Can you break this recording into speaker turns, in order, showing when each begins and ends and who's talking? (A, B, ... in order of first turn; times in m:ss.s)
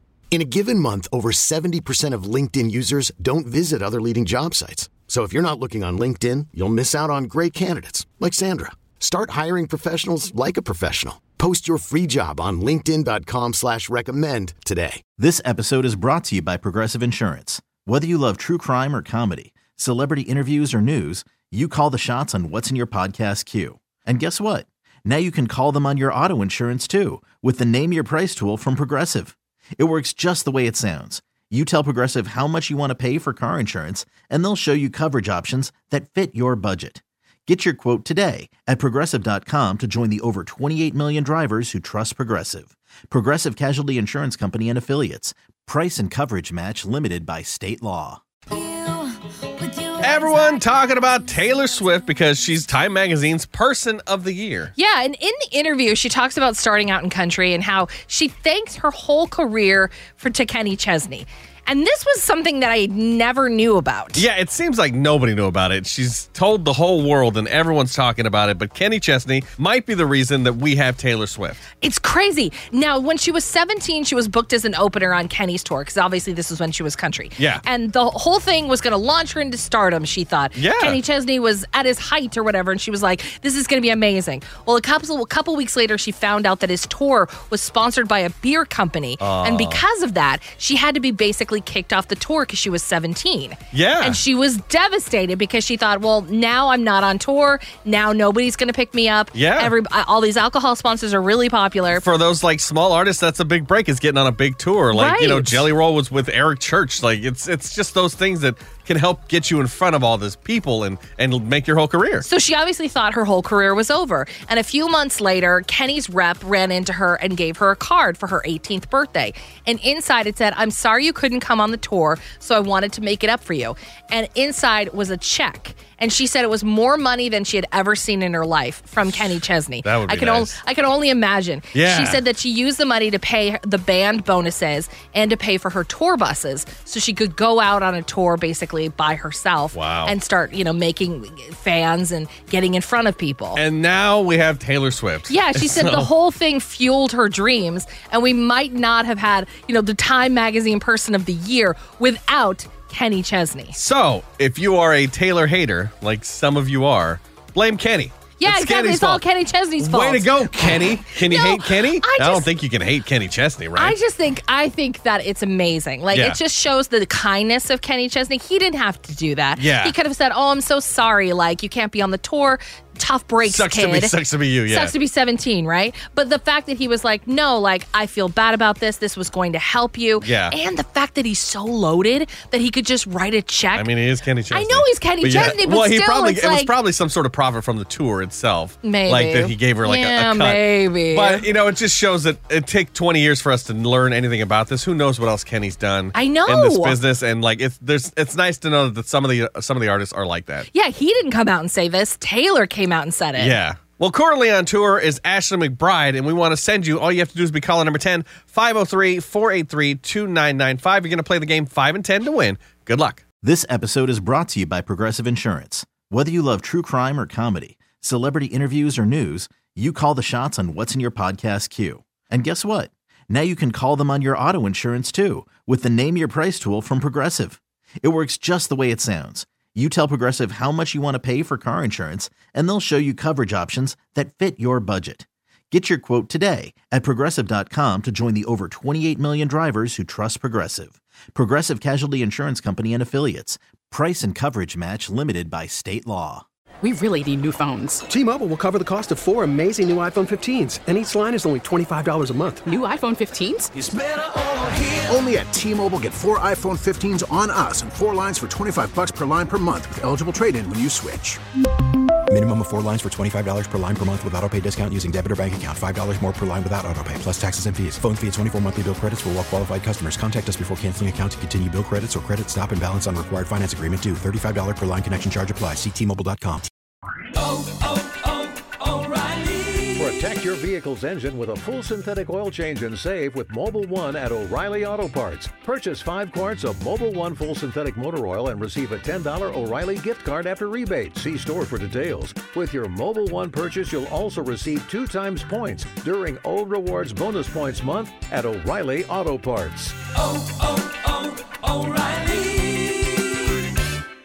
0:00.3-0:15.0 A
0:15.2-0:48.2 B
0:48.6-0:49.1 C
0:49.6-0:50.3 C
0:50.0-0:54.7 D
0:54.8-1:04.2 C
1:04.2-1:11.6 D
1:11.8-1:42.0 C
1:17.4-1:17.6 D
1:20.6-1:21.0 D
1:29.2-1:29.8 D
1:33.7-1:34.2 D
1:39.3-1:39.7 D
1:41.9-1:52.3 D
1:44.9-1:45.7 C
1:52.2-2:23.6 C
2:09.8-2:10.6 D
2:11.7-2:12.2 D
2:19.7-2:20.2 D
2:23.5-2:26.1 D
2:25.3-2:33.8 C
2:33.8-2:39.2 D
2:38.4-2:42.5 C
2:39.8-2:44.0 D
2:43.8-3:03.9 C
2:46.1-2:46.4 D
2:49.6-2:50.0 D
2:53.4-2:55.0 D
3:00.2-3:00.6 D
3:03.7-3:20.7 D
3:04.5-3:06.7 C
3:08.8-3:11.5 C
3:16.1-3:17.0 C
3:20.7-3:23.6 C
3:23.4-3:33.2 D
3:33.4-4:06.4 B
4:06.8-4:08.0 E
4:08.1-4:12.6 F
4:12.7-4:13.7 E
4:13.8-4:21.4 G
4:22.3-4:36.7 H
4:39.9-5:00.0 I